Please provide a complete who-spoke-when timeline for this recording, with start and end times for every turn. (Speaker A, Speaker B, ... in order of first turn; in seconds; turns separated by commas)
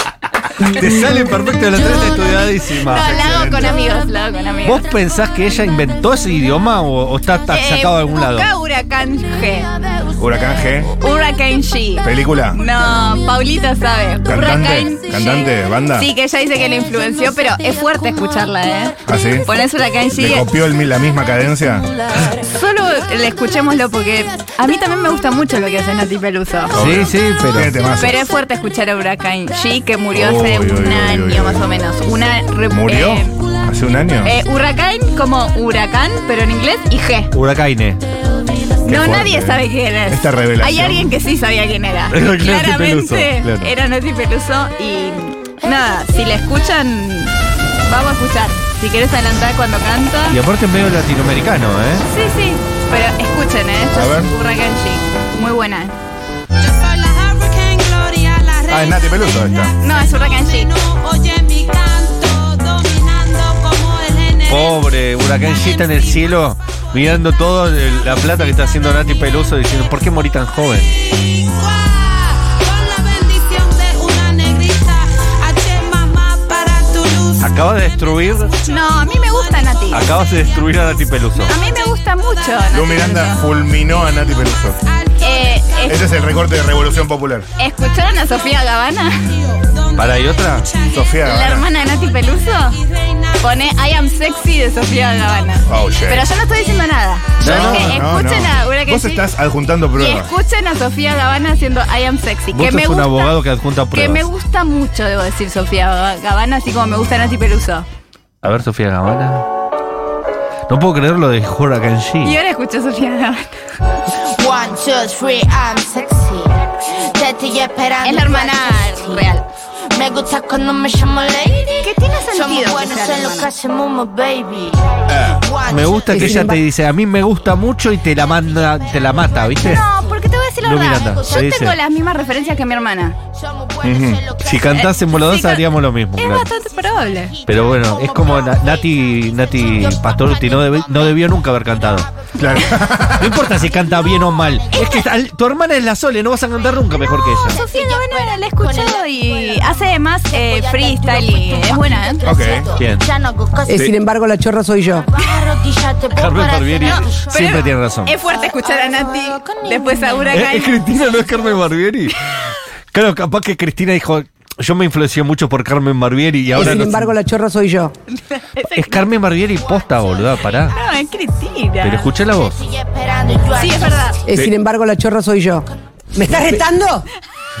Speaker A: 0.6-3.5, Speaker B: 1.5-2.7, Speaker C: 2.7-4.9, Speaker D: 3.1-3.7, Speaker B: 3.6-4.7, Speaker A: 4.6-8.5, Speaker B: 5.2-5.6, Speaker C: 7.5-9.7, Speaker B: 9.4-10.8, Speaker D: 10.2-10.9, Speaker C: 10.9-20.5, Speaker D: 12.0-12.6, Speaker B: 12.5-14.9, Speaker D: 14.2-16.1, Speaker B: 16.6-20.0, Speaker D: 19.1-19.4, Speaker D: 20.1-21.9, Speaker B: 21.7-22.5, Speaker C: 22.5-26.7, Speaker D: 26.7-28.2, Speaker A: 26.7-27.7, Speaker C: 28.0-33.3, Speaker D: 30.1-31.6, Speaker D: 32.7-34.3, Speaker C: 34.2-37.3, Speaker A: 37.3-38.0, Speaker A: 38.9-39.5, Speaker C: 38.9-50.4, Speaker D: 38.9-39.5, Speaker D: 40.1-41.1, Speaker A: 42.1-43.7, Speaker A: 50.3-52.0, Speaker C: 52.0-55.9, Speaker D: 53.9-54.3, Speaker B: 56.6-66.3, Speaker D: 58.7-59.7, Speaker C: 59.8-60.7, Speaker A: 64.5-70.9, Speaker B: 70.9-82.9, Speaker A: 77.4-78.5, Speaker C: 78.7-80.1, Speaker A: 79.9-81.5, Speaker C: 81.4-83.4, Speaker D: 82.7-84.8, Speaker B: 84.8-86.4, Speaker C: 85.2-86.0, Speaker D: 85.9-87.5, Speaker C: 87.6-89.3, Speaker B: 89.2-95.8, Speaker A: 90.0-90.7, Speaker D: 90.9-91.7, Speaker C: 91.2-92.8, Speaker C: 93.4-99.3, Speaker D: 95.7-96.3, Speaker A: 97.4-98.1, Speaker D: 97.4-100.3, Speaker C: 99.9-103.4, Speaker A: 102.5-104.2, Speaker C: 103.9-107.8, Speaker A: 108.4-109.5, Speaker A: 110.7-112.3, Speaker C: 112.2-113.5, Speaker B: 114.4-116.3, Speaker B: 117.2-118.4, Speaker C: 118.0-119.4, Speaker B: 120.0-121.8, Speaker C: 121.7-123.5, Speaker B: 122.9-124.8, Speaker D: 125.1-125.4, Speaker A: 125.6-129.8, Speaker E: 126.1-126.6, Speaker C: 129.6-133.2, Speaker A: 130.6-131.8, Speaker D: 133.8-134.2, Speaker A: 134.4-136.5, Speaker C: 134.7-137.5, Speaker A: 137.4-142.1, Speaker D: 142.3-143.4, Speaker A: 143.2-147.6, Speaker C: 147.5-152.2, Speaker D: 152.2-152.7, Speaker A: 152.8-153.0, Speaker E: 153.7-155.0, Speaker A: 156.1-158.2, Speaker C: 157.3-160.8, Speaker B: 158.8-160.2, Speaker A: 160.3-162.2, Speaker A: 162.9-167.2, Speaker E: 166.5-167.9, Speaker A: 168.7-170.7, Speaker C: 170.7-172.1, Speaker A: 171.8-172.7, Speaker B: 173.1-173.9, Speaker C: 173.5-174.3, Speaker E: 174.2-177.0